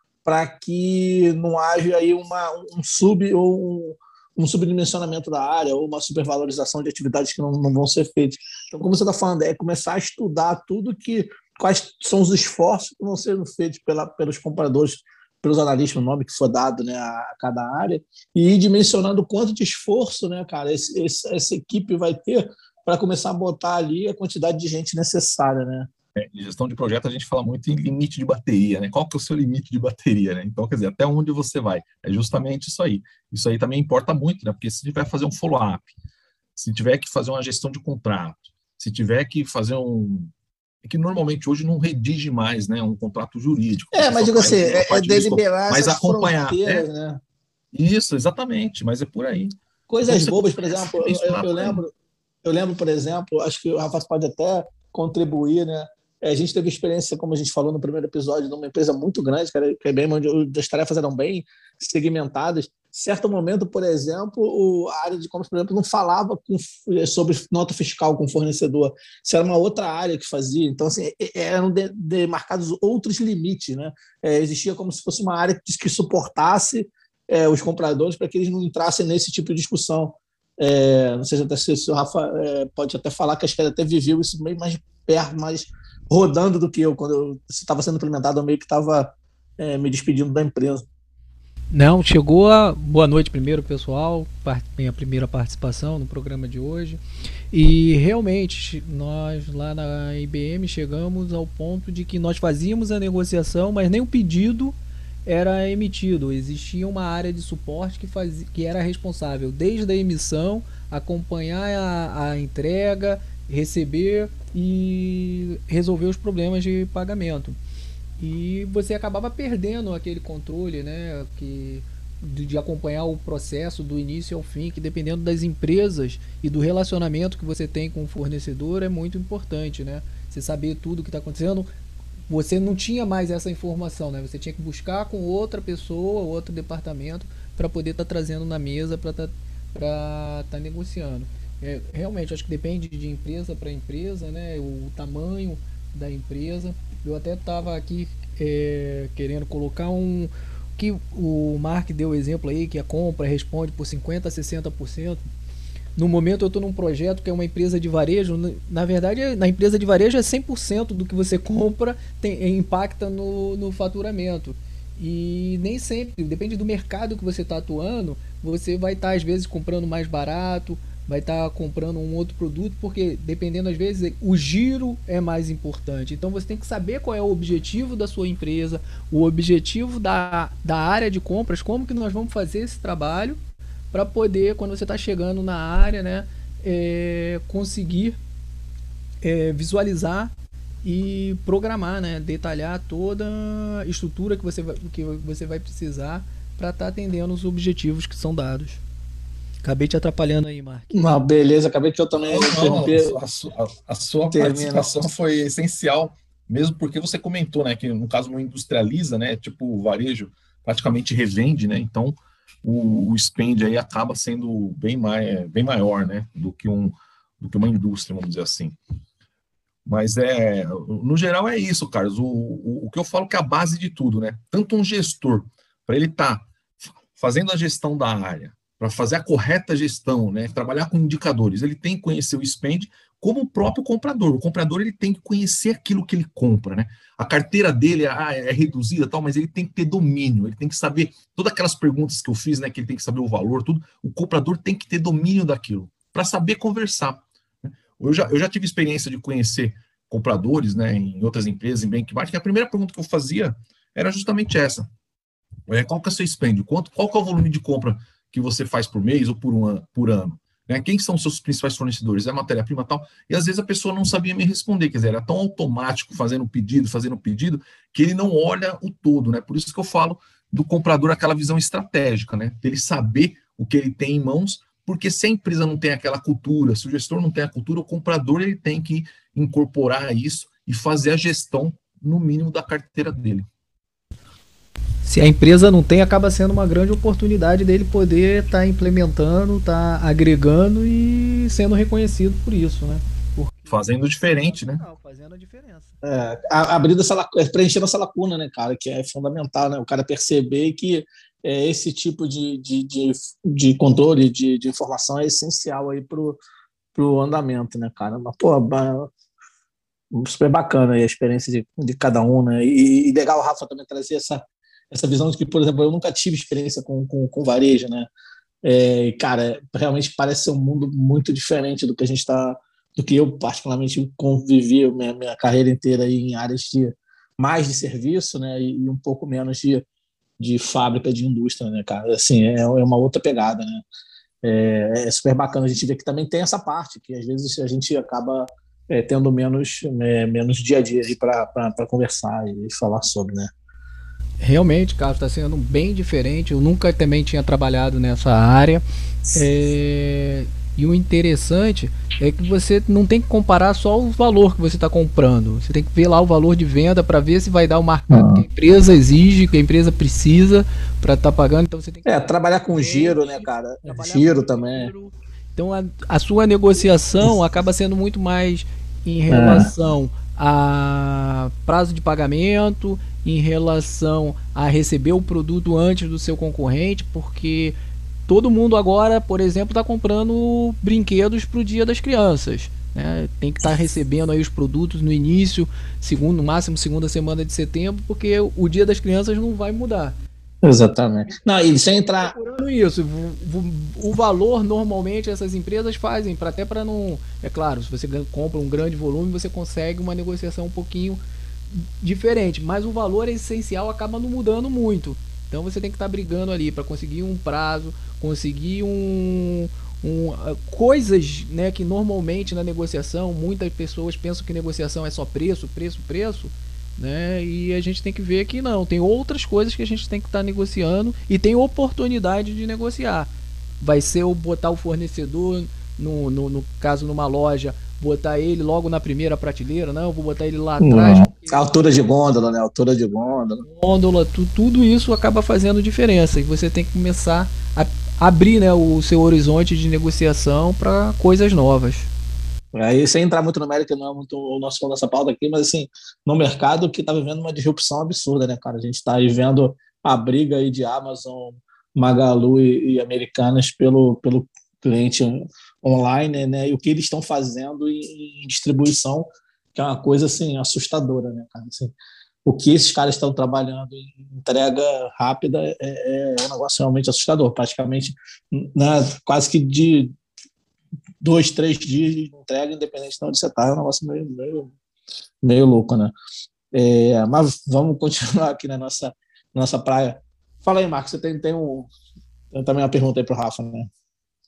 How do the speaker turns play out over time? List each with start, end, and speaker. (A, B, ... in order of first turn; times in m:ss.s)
0:00.2-0:25.9 A
0:26.2-0:35.9 B
0:36.6-0:40.3 B
0:40.8-0:46.8 B
0:43.9-0:47.2 A
0:47.7-0:49.5 B
0:49.9-0:51.9 A
0:50.0-0:51.8 B
0:52.4-1:30.8 A
1:31.7-1:37.0 C
1:37.5-1:57.6 C
1:58.2-2:11.7 C
2:12.3-2:35.2 C
2:36.0-3:03.4 C
3:03.9-3:08.2 C
3:09.2-3:18.8 C
3:19.6-3:20.9 C
3:20.9-3:23.2 A
3:22.3-3:38.8 B
3:24.3-3:25.1 A
3:39.8-3:46.5 B
3:47.2-4:14.9 B
4:15.7-4:43.4 B
4:45.0-4:56.0 C
4:53.7-4:54.8 B
4:56.0-5:06.4 A
5:06.9-5:09.1 A
5:10.1-5:18.1 A
5:18.6-5:29.8 A
5:30.4-5:33.8 A
5:34.4-5:43.5 A
5:44.4-6:17.7 C
5:58.1-5:58.4 A
6:02.0-6:04.9 A
6:09.3-6:09.7 A
6:18.3-6:30.1 C
6:30.6-6:32.3 A
6:31.9-6:41.2 C
6:41.7-7:03.3 C
7:03.8-7:11.7 C
7:10.8-7:13.6 A
7:13.6-7:22.1 C
7:22.7-7:50.1 A
7:51.2-7:54.7 A
7:55.4-7:56.1 A
7:56.7-8:01.9 A
8:02.5-8:03.9 A